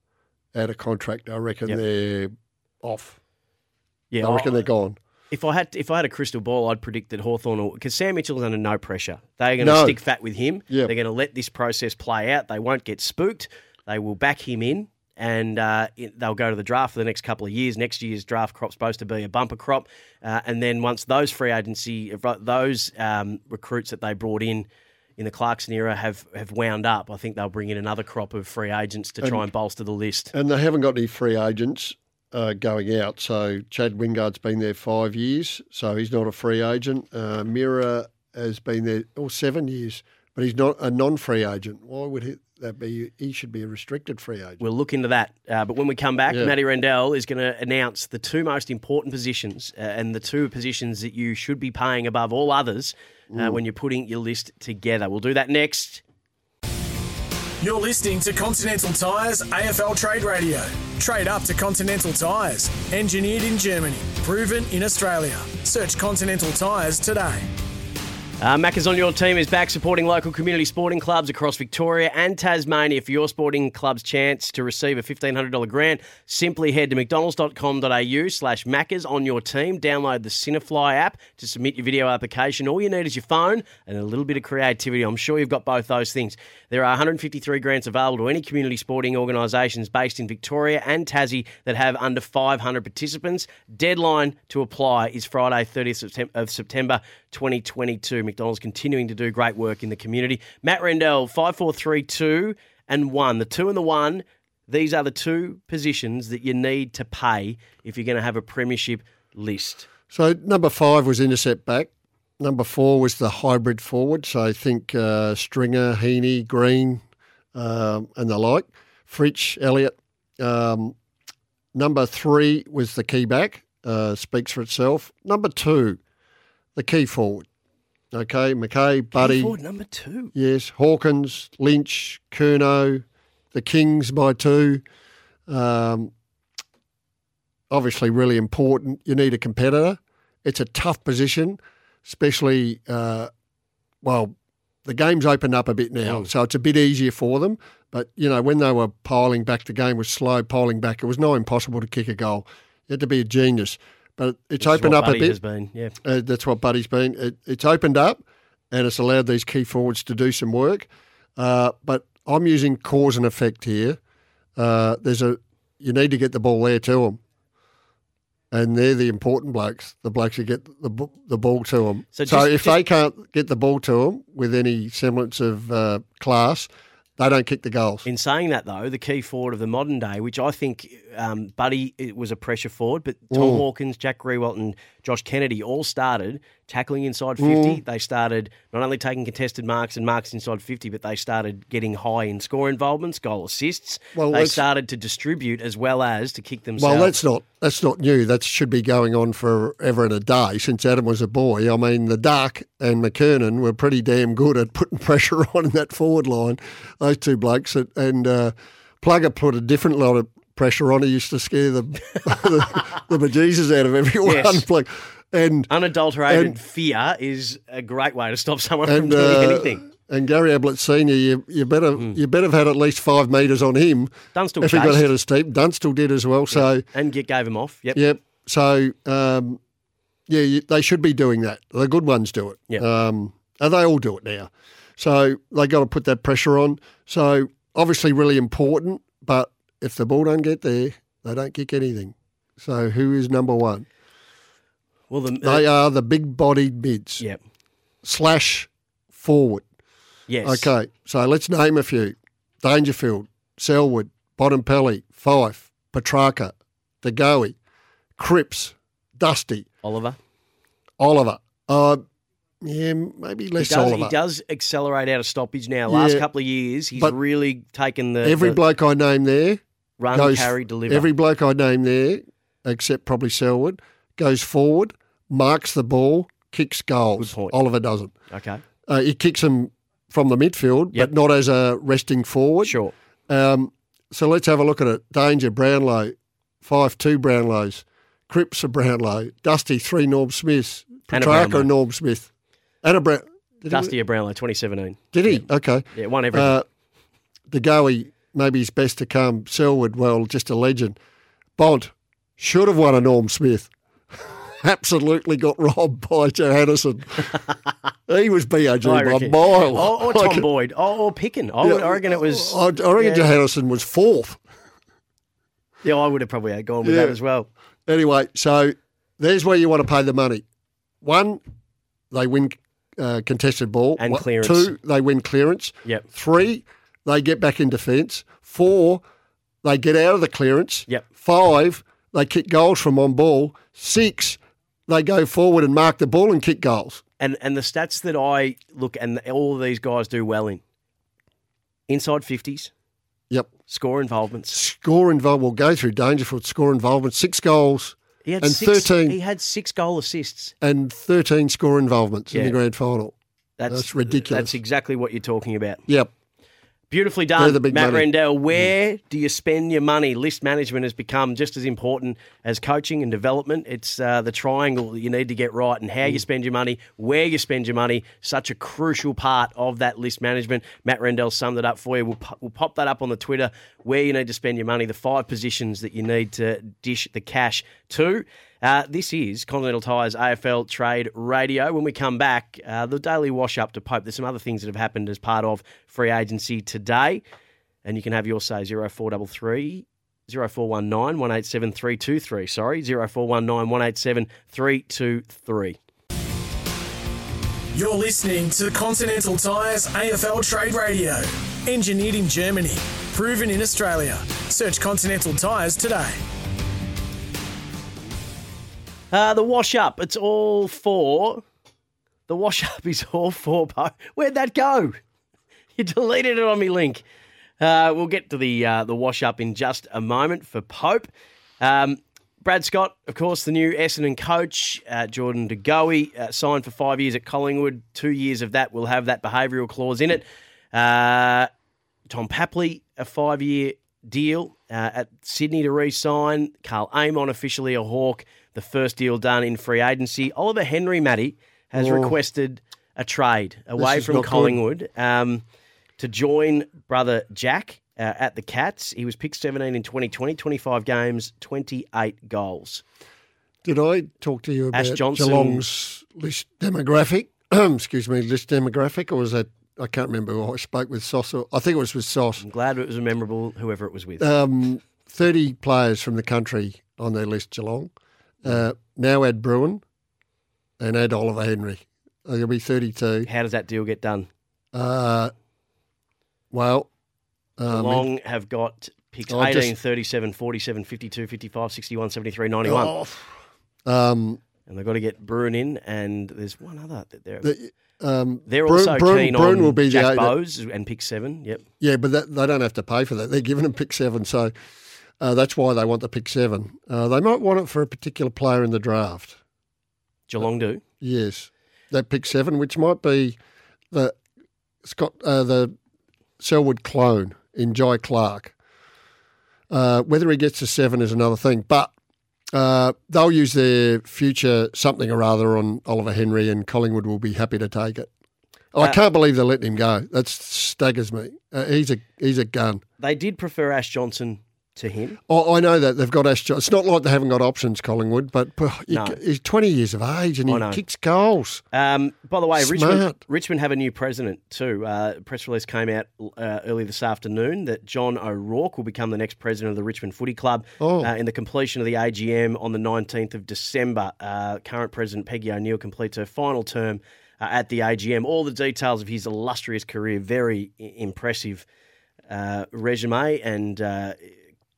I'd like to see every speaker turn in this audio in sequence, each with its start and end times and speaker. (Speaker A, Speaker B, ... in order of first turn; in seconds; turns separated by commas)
Speaker A: 0.5-3.2, Speaker B: 4.1-4.6, Speaker A: 4.2-5.0, Speaker B: 5.3-24.7, Speaker A: 9.6-10.0, Speaker B: 25.2-30.3, Speaker A: 30.3-44.6, Speaker B: 44.6-56.0, Speaker A: 53.3-53.6, Speaker C: 57.6-67.5, Speaker B: 68.4-109.9, Speaker A: 110.1-117.0, Speaker A: 117.5-120.9, Speaker A: 121.7-126.0, Speaker A: 126.7-127.5, Speaker A: 128.1-129.5, Speaker B: 129.1-130.3, Speaker A: 130.3-134.8, Speaker A: 135.5-136.1, Speaker A: 137.7-143.3, Speaker A: 144.0-144.3, Speaker A: 144.8-155.4, Speaker B: 154.6-155.9, Speaker A: 156.0-164.0, Speaker A: 164.6-167.2, Speaker A: 168.5-178.0, Speaker B: 172.1-172.8, Speaker B: 178.0-197.2, Speaker A: 183.3-183.6, Speaker A: 187.4-187.8, Speaker A: 194.1-194.6, Speaker A: 196.8-215.7, Speaker B: 214.2-214.6, Speaker B: 215.7-219.8, Speaker A: 216.3-216.6, Speaker A: 218.9-226.8, Speaker B: 224.3-225.1, Speaker B: 226.5-228.0, Speaker A: 227.9-229.6, Speaker A: 230.3-243.8, Speaker B: 245.1-245.6, Speaker A: 245.4-247.2, Speaker A: 248.0-249.7, Speaker B: 250.3-250.7, Speaker A: 250.4-257.6, Speaker A: 258.2-259.7, Speaker B: 259.8-260.2, Speaker A: 261.0-262.0, Speaker A: 262.6-264.2, Speaker B: 263.6-268.6, Speaker A: 265.9-266.3, Speaker A: 268.2-269.6, Speaker B: 270.0-271.1, Speaker A: 270.1-278.1, Speaker B: 277.2-277.6, Speaker B: 278.3-278.6, Speaker A: 278.9-292.3, Speaker B: 282.6-282.9, Speaker B: 291.1-291.7, Speaker A: 292.8-293.9, Speaker B: 293.7-296.5, Speaker A: 295.1-296.6, Speaker A: 297.5-301.0, Speaker A: 301.6-307.4, Speaker A: 308.1-310.5, Speaker B: 308.8-313.3, Speaker A: 311.6-314.4, Speaker B: 315.8-317.5, Speaker A: 316.8-317.2, Speaker A: 317.9-320.4, Speaker A: 321.0-321.4, Speaker A: 322.1-329.0, Speaker B: 324.0-324.7, Speaker A: 329.6-337.0, Speaker B: 337.2-340.6, Speaker B: 341.9-342.7, Speaker B: 343.7-344.6, Speaker A: 344.5-349.2, Speaker B: 348.2-350.5, Speaker A: 350.6-353.1, Speaker B: 353.6-355.8, Speaker A: 353.7-354.6, Speaker B: 356.9-387.2, Speaker A: 357.4-358.7, Speaker B: 387.8-395.8, Speaker C: 397.7-406.2, Speaker B: 409.1-411.4, Speaker B: 412.3-415.0, Speaker B: 415.8-417.0, Speaker B: 417.6-421.1, Speaker B: 421.6-431.5, Speaker B: 432.1-445.4, Speaker A: 441.7-442.1, Speaker A: 443.8-444.6, Speaker B: 446.0-452.8, Speaker A: 453.6-462.4, Speaker B: 454.7-455.6, Speaker B: 462.4-464.3, Speaker A: 464.2-467.9, Speaker A: 468.4-469.8, Speaker A: 470.8-473.3, Speaker B: 473.2-474.3, Speaker A: 474.7-475.3, Speaker A: 476.5-476.9, Speaker A: 477.6-478.1, Speaker B: 477.7-482.9, Speaker A: 479.3-479.7, Speaker A: 482.6-484.4, Speaker B: 484.7-487.5, Speaker A: 487.4-490.3, Speaker B: 488.5-491.6, Speaker A: 491.8-494.5, Speaker A: 495.2-499.4, Speaker B: 500.3-500.8, Speaker A: 501.0-503.4, Speaker A: 503.9-504.2, Speaker A: 504.8-505.7, Speaker A: 506.4-508.5, Speaker A: 509.7-511.9, Speaker A: 512.5-518.1, Speaker A: 518.7-522.8, Speaker B: 523.0-525.2, Speaker A: 525.3-531.6, Speaker B: 528.9-529.2, Speaker B: 530.5-530.8, Speaker B: 531.7-551.6, Speaker A: 532.5-533.2, Speaker A: 540.8-541.1, Speaker B: 552.3-554.3